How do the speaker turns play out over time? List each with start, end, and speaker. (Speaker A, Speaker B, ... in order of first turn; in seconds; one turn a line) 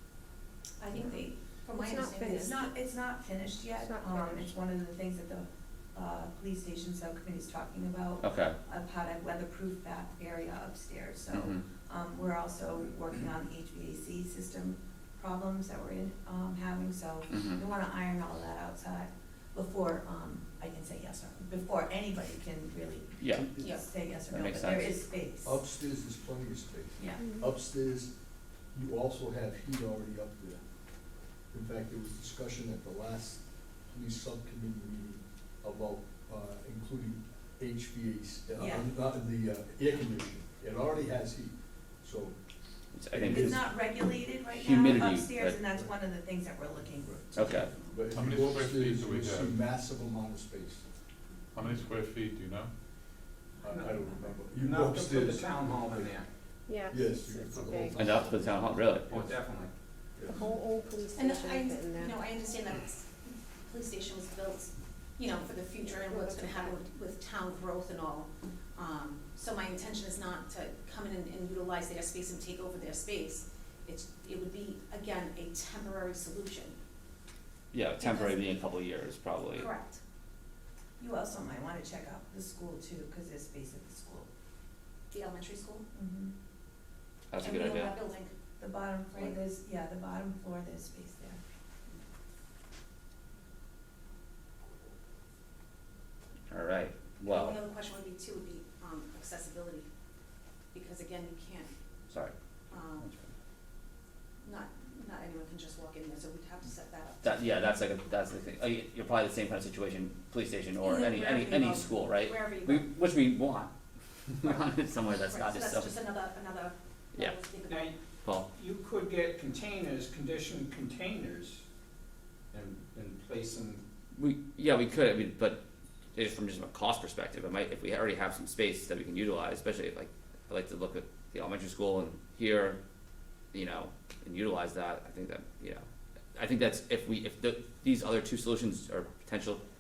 Speaker A: 0.8-2.7
Speaker B: 1.8-2.4
Speaker C: 2.4-25.6
Speaker B: 3.8-4.5
Speaker D: 8.2-8.6
Speaker D: 11.3-11.6
Speaker D: 17.3-17.6
Speaker D: 23.2-23.6
Speaker A: 23.6-23.9
Speaker D: 24.3-24.9
Speaker E: 25.4-28.1
Speaker C: 27.0-27.3
Speaker E: 28.7-30.6
Speaker E: 31.5-42.4
Speaker C: 38.6-38.9
Speaker D: 42.9-43.6
Speaker E: 43.1-43.7
Speaker C: 43.2-48.0
Speaker D: 44.5-45.6
Speaker D: 47.3-47.7
Speaker E: 47.8-50.8
Speaker F: 48.1-49.6
Speaker F: 51.5-52.7
Speaker E: 53.6-56.2
Speaker G: 53.7-56.3
Speaker B: 56.7-58.0
Speaker E: 56.9-58.5
Speaker F: 57.5-57.9
Speaker D: 58.0-59.1
Speaker G: 59.1-59.7
Speaker E: 60.1-60.5
Speaker B: 60.3-62.1
Speaker A: 61.1-76.7
Speaker B: 65.8-66.8
Speaker D: 77.7-79.7
Speaker A: 78.0-78.4
Speaker A: 79.5-80.0
Speaker C: 81.0-84.3
Speaker A: 85.1-85.8
Speaker C: 85.9-86.3
Speaker D: 87.3-87.9
Speaker A: 87.4-88.3
Speaker C: 88.6-91.4
Speaker D: 96.5-97.6
Speaker A: 97.3-99.9
Speaker A: 100.7-101.7
Speaker A: 102.7-103.1
Speaker A: 104.4-107.4
Speaker D: 107.2-113.7
Speaker A: 110.8-112.9
Speaker D: 114.3-116.0
Speaker A: 115.2-117.9
Speaker G: 117.7-118.0
Speaker G: 118.5-121.6
Speaker G: 122.5-123.8
Speaker D: 124.1-125.6
Speaker D: 126.1-132.8
Speaker D: 133.5-135.8
Speaker D: 136.3-139.6